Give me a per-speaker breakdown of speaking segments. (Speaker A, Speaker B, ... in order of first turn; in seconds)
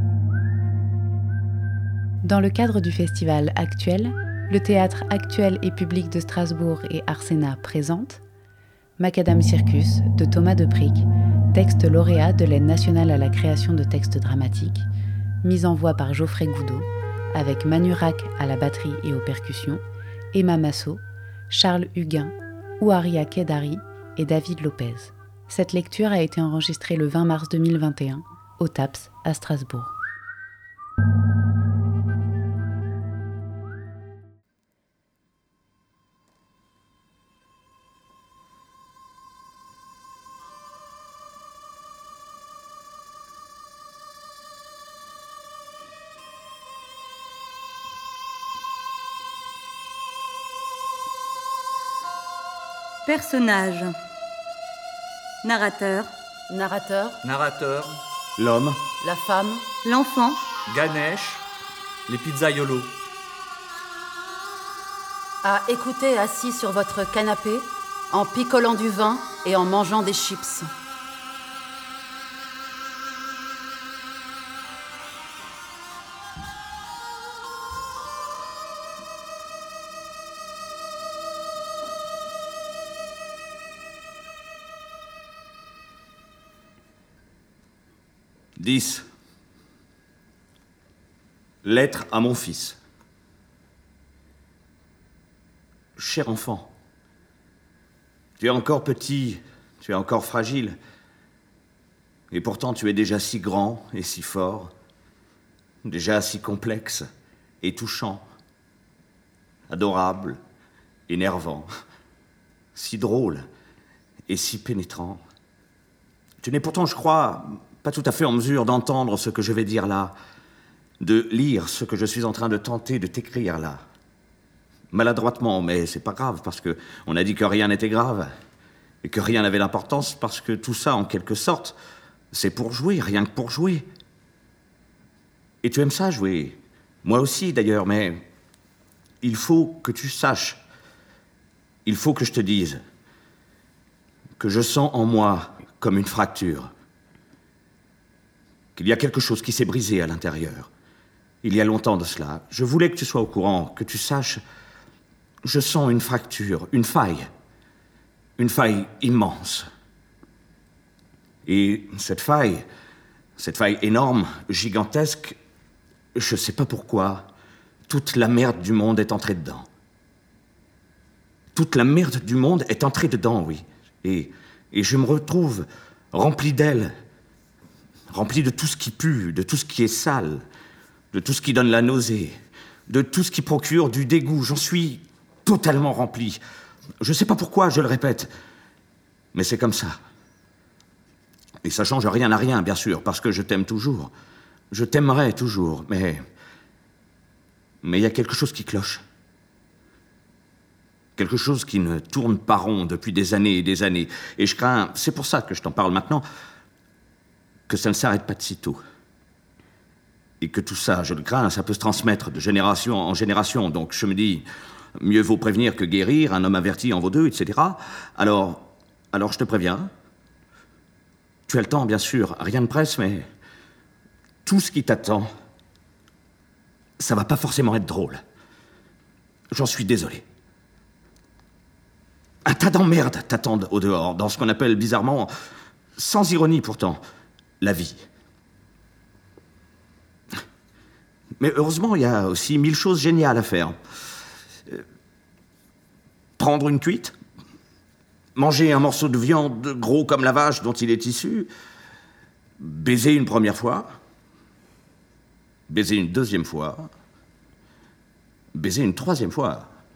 Speaker A: 2.2-8.2, 9.0-14.8, 15.4-19.8, 20.3-29.9
Speaker B: 53.0-53.9, 55.4-56.1, 59.8-60.4
Speaker C: 56.5-57.2, 59.0-59.6, 65.4-70.7
Speaker D: 57.2-57.9, 60.7-61.4, 62.1-62.9
Speaker E: 58.4-58.8, 88.6-89.0, 91.6-92.8, 96.0-96.7, 98.4-100.8, 102.3-104.7, 105.8-107.0, 107.6-108.2, 109.7-110.4, 111.1-111.7, 112.8-113.4, 114.3-115.2, 116.4-120.1, 121.0-123.8, 124.9-128.3, 129.0-131.8, 132.3-133.8, 135.6-138.2, 139.2-140.6, 141.8-142.8, 144.4-146.7, 148.8-150.7, 151.4-154.4, 155.4-157.3, 158.4-159.7, 161.4-162.6, 163.4-165.3, 166.1-167.3, 167.9-169.7, 171.5-176.9, 178.1-180.4, 181.1-182.4, 182.9-186.4, 187.0-188.3, 189.3-190.0, 191.6-194.1, 194.7-196.2, 197.8-199.0, 201.2-206.2, 207.7-208.8, 210.4-214.4, 215.0-219.9, 221.5-223.2, 224.4-225.3, 227.0-228.2, 229.5-230.2, 232.4-235.3, 236.0-237.0, 237.6-238.0, 241.4-243.8, 246.4-247.1, 248.3-251.5, 252.6-253.9, 255.7-256.9, 258.5-259.7